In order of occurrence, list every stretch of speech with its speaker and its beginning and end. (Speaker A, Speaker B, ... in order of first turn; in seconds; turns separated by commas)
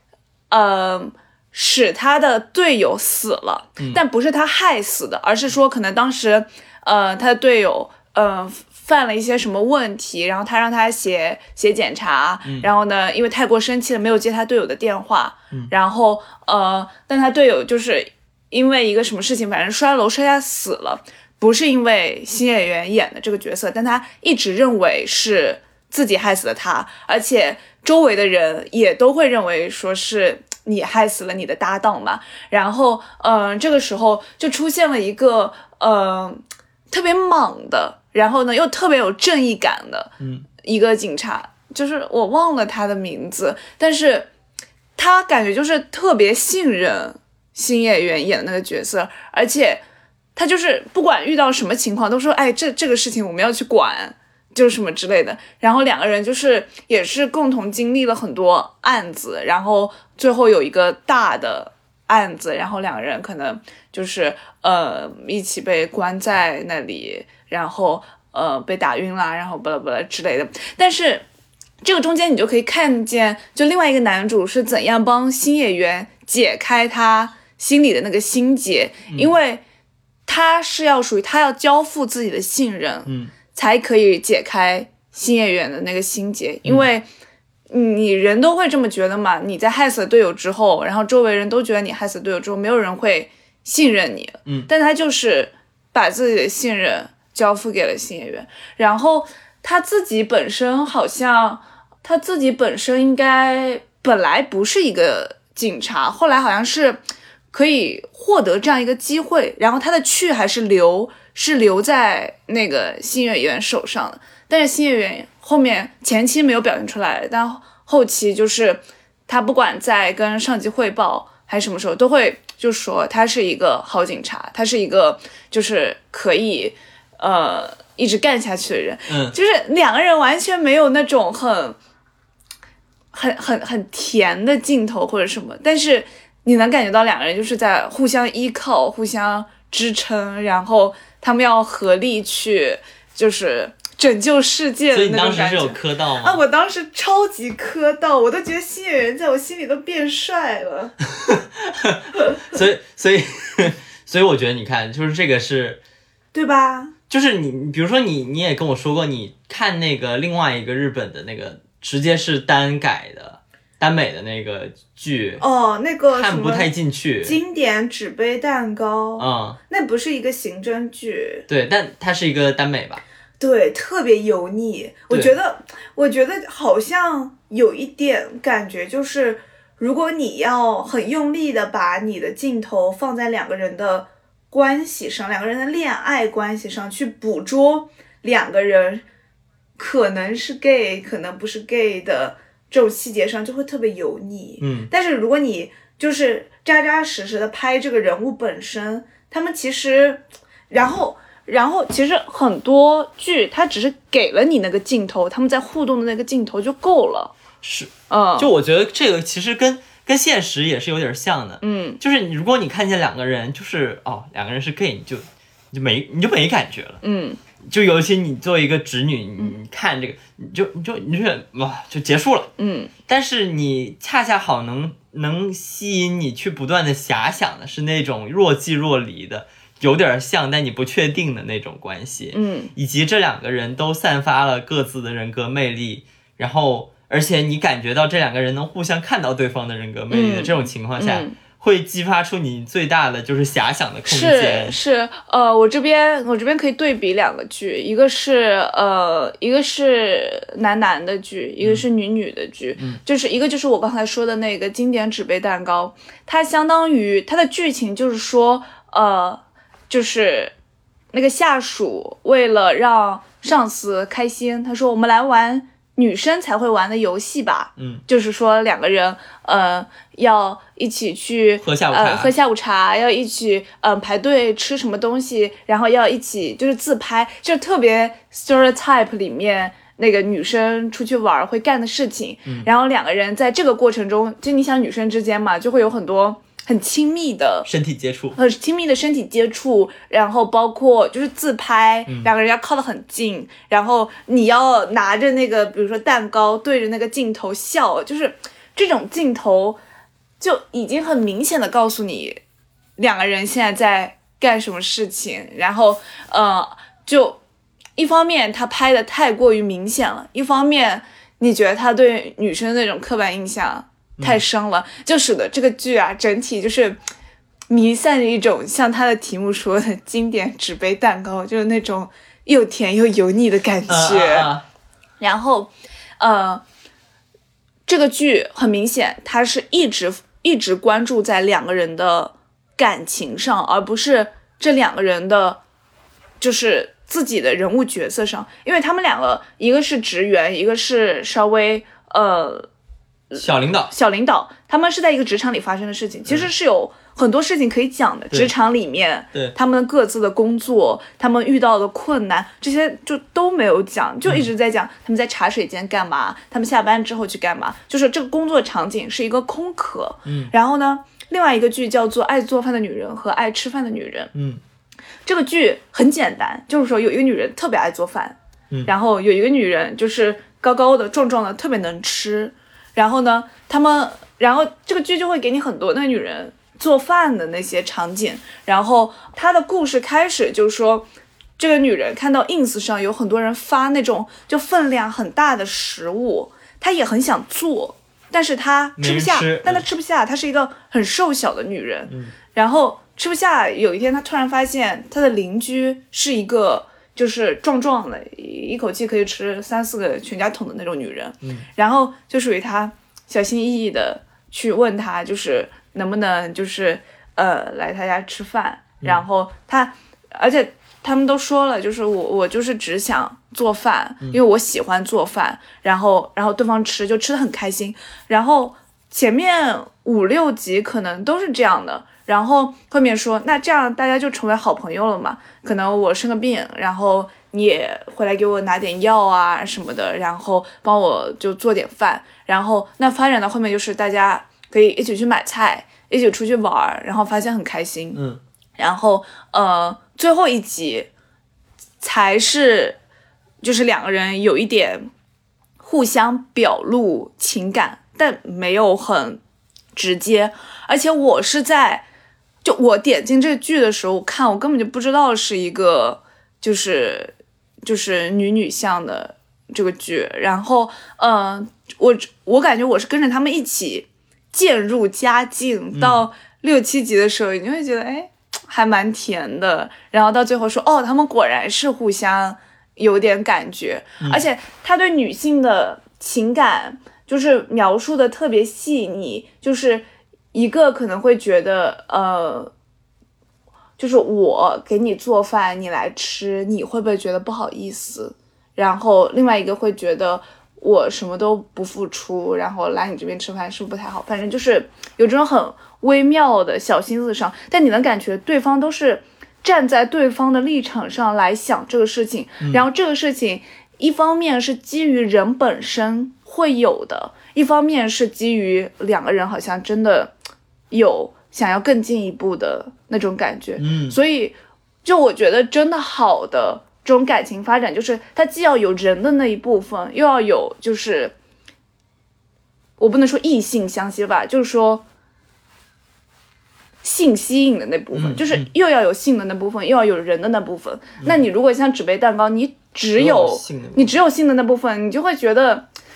Speaker A: 0.5-44.3, Speaker B: 40.2-40.5, Speaker A: 45.0-49.8, Speaker A: 50.4-71.2, Speaker A: 71.8-79.6, Speaker B: 79.1-79.3, Speaker A: 80.3-87.1, Speaker B: 83.1-83.3, Speaker A: 87.7-107.0, Speaker A: 107.5-131.8, Speaker B: 129.1-129.3, Speaker A: 133.1-151.0, Speaker B: 144.9-146.4, Speaker B: 151.1-155.8, Speaker A: 156.3-156.9, Speaker B: 157.1-165.4, Speaker A: 165.4-166.7, Speaker B: 166.1-167.4, Speaker A: 167.2-171.5, Speaker B: 169.2-169.6, Speaker B: 171.5-173.0, Speaker A: 173.4-189.0, Speaker A: 189.8-207.3, Speaker B: 194.6-194.9, Speaker B: 207.6-217.0, Speaker A: 208.1-208.5, Speaker A: 211.6-212.0, Speaker A: 217.0-217.4, Speaker B: 217.6-222.5, Speaker A: 222.6-222.9, Speaker B: 223.1-244.8, Speaker A: 232.3-232.7, Speaker A: 240.1-241.4, Speaker A: 244.1-260.5, Speaker A: 261.1-287.7, Speaker B: 267.8-268.0, Speaker B: 271.6-272.3, Speaker B: 287.6-288.4, Speaker A: 288.4-299.8, Speaker A: 300.4-302.4, Speaker A: 303.0-307.4, Speaker A: 308.0-317.0, Speaker B: 314.2-314.4, Speaker A: 317.7-324.5, Speaker B: 323.9-324.6, Speaker A: 325.2-326.6, Speaker A: 327.9-335.6, Speaker A: 336.4-342.7, Speaker A: 343.3-364.3, Speaker B: 343.4-343.9, Speaker B: 360.2-360.5, Speaker B: 364.3-364.6, Speaker A: 365.3-381.1, Speaker A: 381.6-438.2, Speaker B: 389.0-389.8, Speaker B: 392.1-392.3, Speaker B: 438.1-438.4, Speaker A: 438.8-441.1, Speaker A: 442.0-443.0, Speaker A: 443.6-445.1, Speaker A: 445.8-449.4, Speaker A: 449.9-452.0, Speaker A: 452.6-482.7, Speaker B: 465.9-466.3, Speaker A: 484.0-510.3, Speaker B: 502.6-502.9, Speaker A: 510.9-521.3, Speaker B: 513.8-514.2, Speaker A: 523.0-525.0, Speaker A: 527.0-535.9, Speaker B: 528.1-528.7, Speaker B: 533.2-534.1